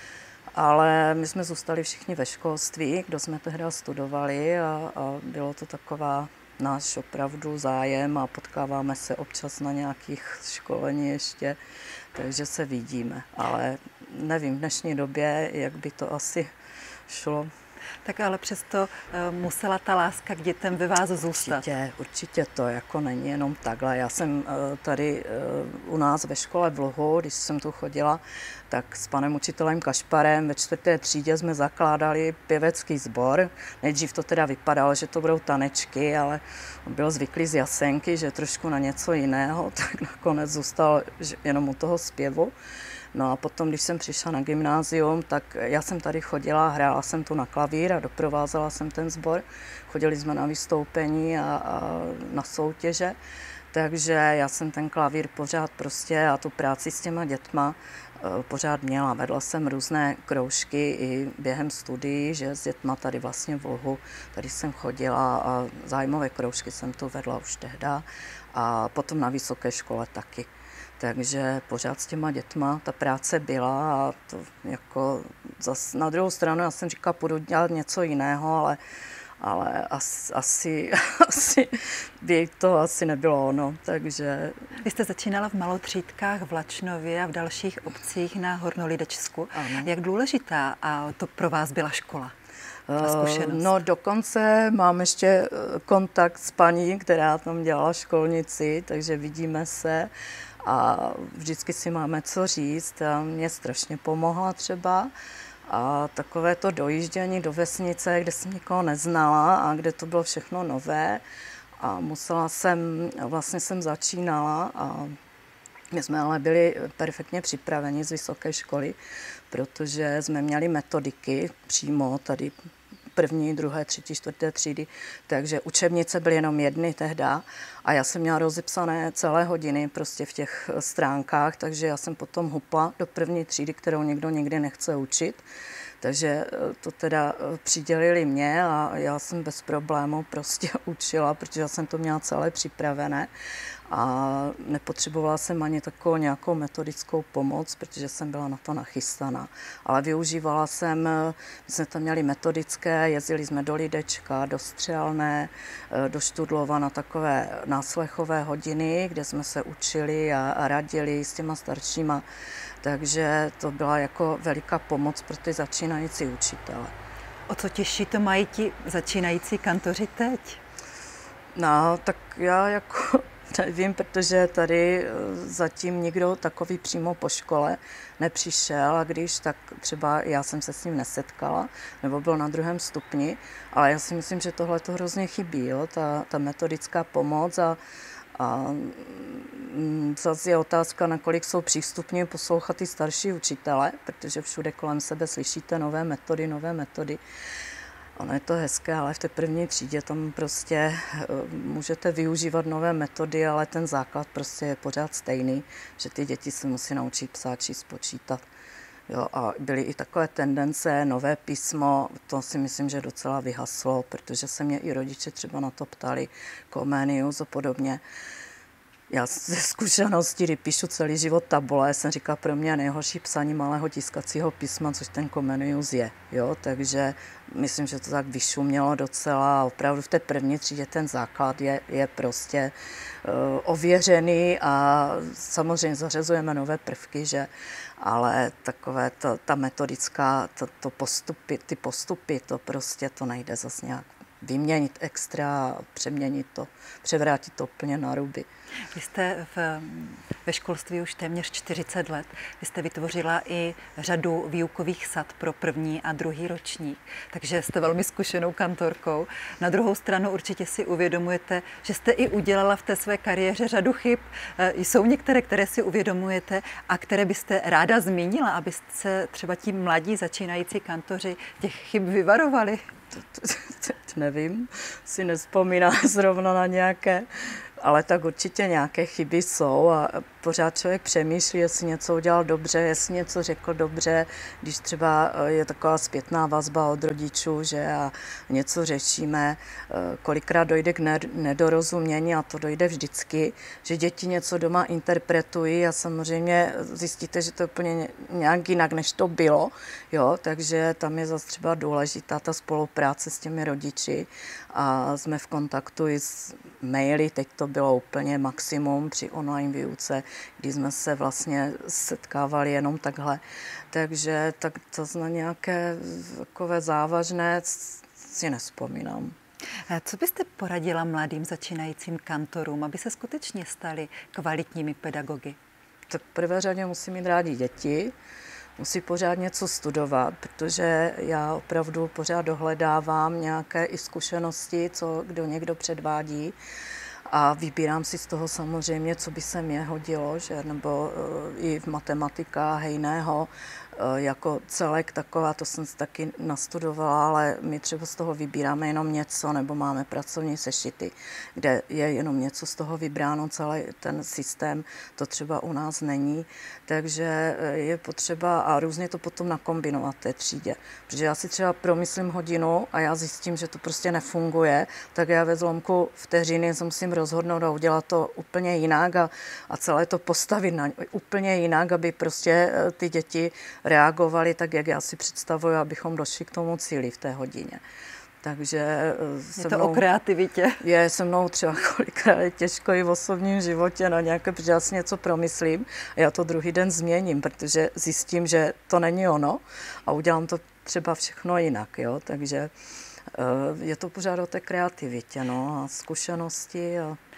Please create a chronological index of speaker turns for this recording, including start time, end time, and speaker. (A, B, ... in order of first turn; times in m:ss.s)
0:00.6-0:11.6 A
0:12.1-0:16.5 A
0:17.1-0:17.5 A
0:18.0-0:21.6 B
0:21.3-0:42.5 A
0:43.1-0:53.2 A
0:53.7-1:18.8 A
1:19.4-1:24.6 A
1:24.8-1:32.3 B
1:29.5-1:29.9 A
1:32.9-1:40.1 A
1:33.0-1:33.8 B
1:40.6-1:45.1 A
1:45.7-1:51.2 A
1:51.8-1:55.2 A
1:55.9-1:59.0 A
1:59.5-2:02.5 A
2:03.2-2:15.4 A
2:16.0-2:23.3 A
2:23.9-2:42.2 A
2:42.8-2:46.9 A
2:47.5-2:50.6 B
2:51.5-3:07.8 A
3:08.3-3:17.2 A
3:18.2-3:28.4 A
3:29.1-3:38.0 A
3:39.1-4:08.4 A
4:08.9-4:32.8 B
4:33.2-4:37.3 A
4:37.8-5:13.4 A
5:13.9-5:19.3 A
5:19.9-5:25.6 B
5:26.1-5:28.1 A
5:28.8-5:36.5 A
5:37.3-6:17.8 A
6:18.4-6:20.0 A
6:19.6-6:20.8 B
6:20.8-6:32.7 A
6:33.3-6:37.2 A